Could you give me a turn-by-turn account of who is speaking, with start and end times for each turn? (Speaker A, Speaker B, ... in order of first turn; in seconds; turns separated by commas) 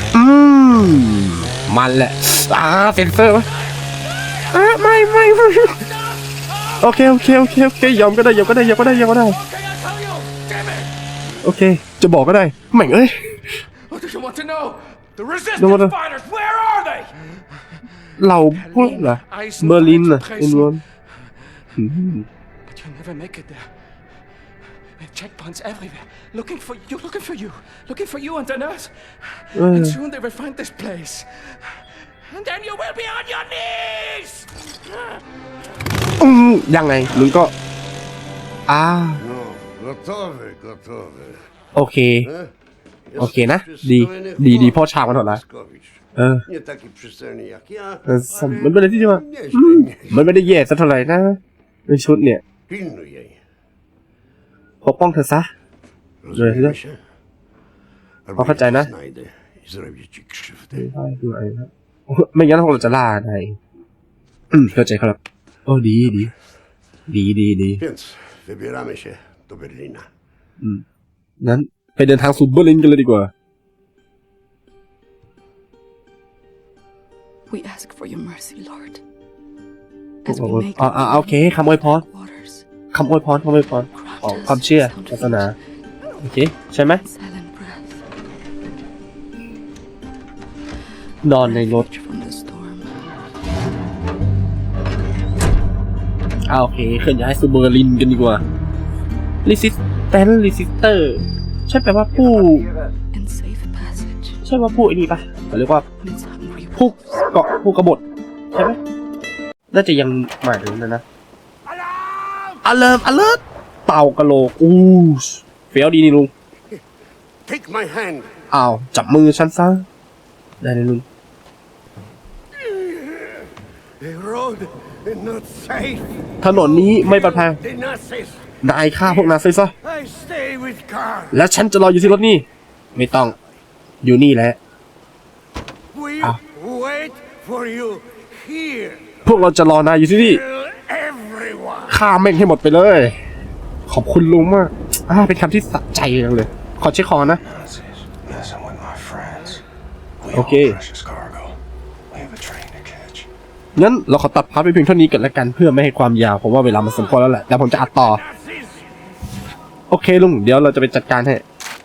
Speaker A: 0.1-3.5, Speaker B: 3.5-10.9, Speaker A: 4.5-5.8, Speaker A: 6.8-9.4, Speaker A: 11.4-13.6, Speaker B: 13.8-17.8, Speaker A: 15.6-15.9, Speaker A: 18.2-20.8, Speaker B: 18.5-21.4, Speaker A: 21.8-22.3, Speaker B: 22.6-23.7, Speaker B: 25.0-34.6, Speaker A: 29.6-30.0, Speaker A: 36.2-37.5, Speaker A: 38.7-39.2, Speaker C: 39.2-41.5, Speaker A: 41.8-42.3, Speaker C: 42.2-42.5, Speaker C: 43.1-50.4, Speaker A: 43.2-45.4, Speaker A: 46.2-46.5, Speaker A: 48.1-52.4, Speaker C: 52.7-53.4, Speaker A: 54.8-55.5, Speaker C: 56.2-57.0, Speaker A: 56.3-56.8, Speaker C: 58.3-60.9, Speaker A: 58.4-58.9, Speaker A: 60.7-63.6, Speaker A: 64.5-66.3, Speaker A: 67.1-67.8, Speaker C: 67.8-70.1, Speaker A: 71.4-73.3, Speaker D: 77.5-79.0, Speaker D: 80.2-82.7, Speaker A: 80.3-82.0, Speaker A: 82.9-85.5, Speaker D: 83.9-85.6, Speaker A: 86.2-87.0, Speaker D: 87.0-88.0, Speaker A: 91.2-91.9, Speaker D: 91.3-93.1, Speaker A: 96.5-98.4, Speaker A: 99.5-102.7, Speaker D: 103.1-104.4, Speaker A: 104.4-105.8, Speaker D: 106.0-107.3, Speaker A: 106.8-108.8, Speaker A: 109.7-111.0, Speaker C: 111.7-112.6, Speaker A: 112.6-116.3, Speaker C: 117.5-118.4, Speaker A: 118.5-119.9, Speaker A: 120.6-121.0, Speaker C: 122.5-128.5, Speaker A: 126.4-127.6, Speaker A: 128.6-129.7, Speaker C: 129.0-131.4, Speaker A: 131.3-133.3, Speaker A: 134.0-134.6, Speaker C: 135.9-139.2, Speaker A: 139.2-140.4, Speaker C: 140.1-142.0, Speaker A: 141.9-143.2, Speaker A: 143.9-147.4, Speaker E: 147.4-149.6, Speaker E: 150.2-153.3, Speaker A: 150.3-150.8, Speaker A: 153.8-158.2, Speaker C: 157.9-158.9, Speaker A: 159.9-161.4